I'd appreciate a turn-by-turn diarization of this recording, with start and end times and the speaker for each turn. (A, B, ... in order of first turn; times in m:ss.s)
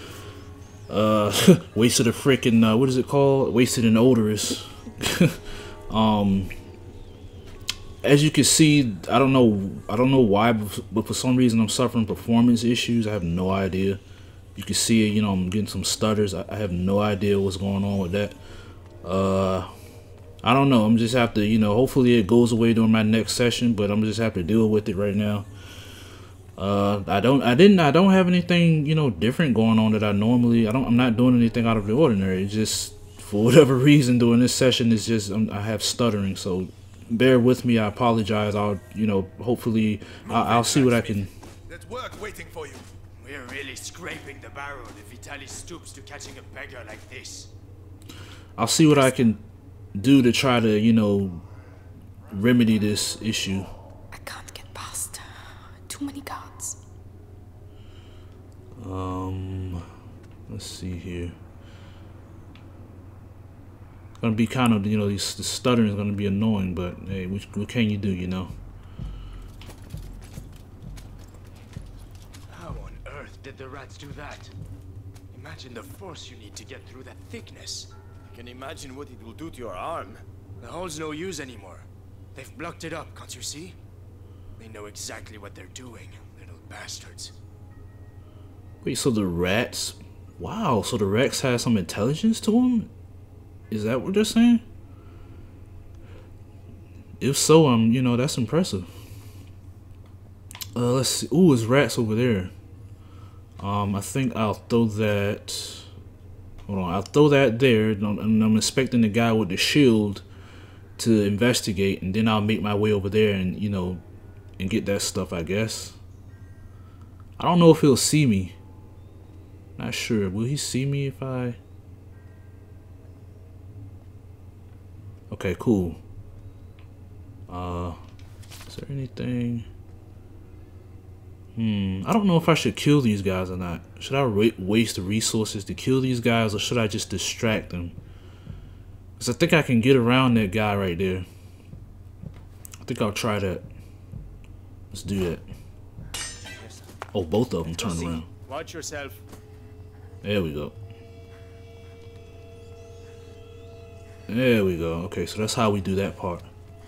0:00.9-0:06.5 A
0:08.0-0:14.0 A
0:14.5-0:18.4 A
0:19.0-0:19.7 A
0:20.4-0:25.5 A
0:26.6-0:41.3 A
0:40.2-0:42.9 B
0:43.2-0:47.5 C
0:48.6-0:49.4 A
0:49.9-0:51.4 A
0:52.3-0:53.7 A
0:54.1-0:56.8 D
0:58.8-0:59.9 A
1:00.5-1:01.4 A
1:04.2-1:08.5 A
1:12.5-1:14.5 C
1:15.3-1:23.8 C
1:24.6-1:27.3 C
1:28.8-1:32.9 A
1:33.7-1:34.6 A
1:37.2-1:38.9 A
1:40.7-1:42.5 A
1:43.6-1:45.9 A
1:46.7-1:50.2 A
1:51.0-1:54.0 A
1:54.6-1:56.0 A
1:57.4-1:58.6 A
1:59.8-2:01.6 A
2:05.3-2:06.0 A
2:07.5-2:08.0 A
2:08.7-2:09.7 A
2:11.5-2:18.0 A
2:19.2-2:21.2 A
2:22.8-2:23.6 A
2:24.9-2:25.5 A
2:26.4-2:26.9 C
2:27.1-2:28.3 A
2:27.8-2:29.2 C
2:30.2-2:30.8 A
2:34.3-2:36.5 A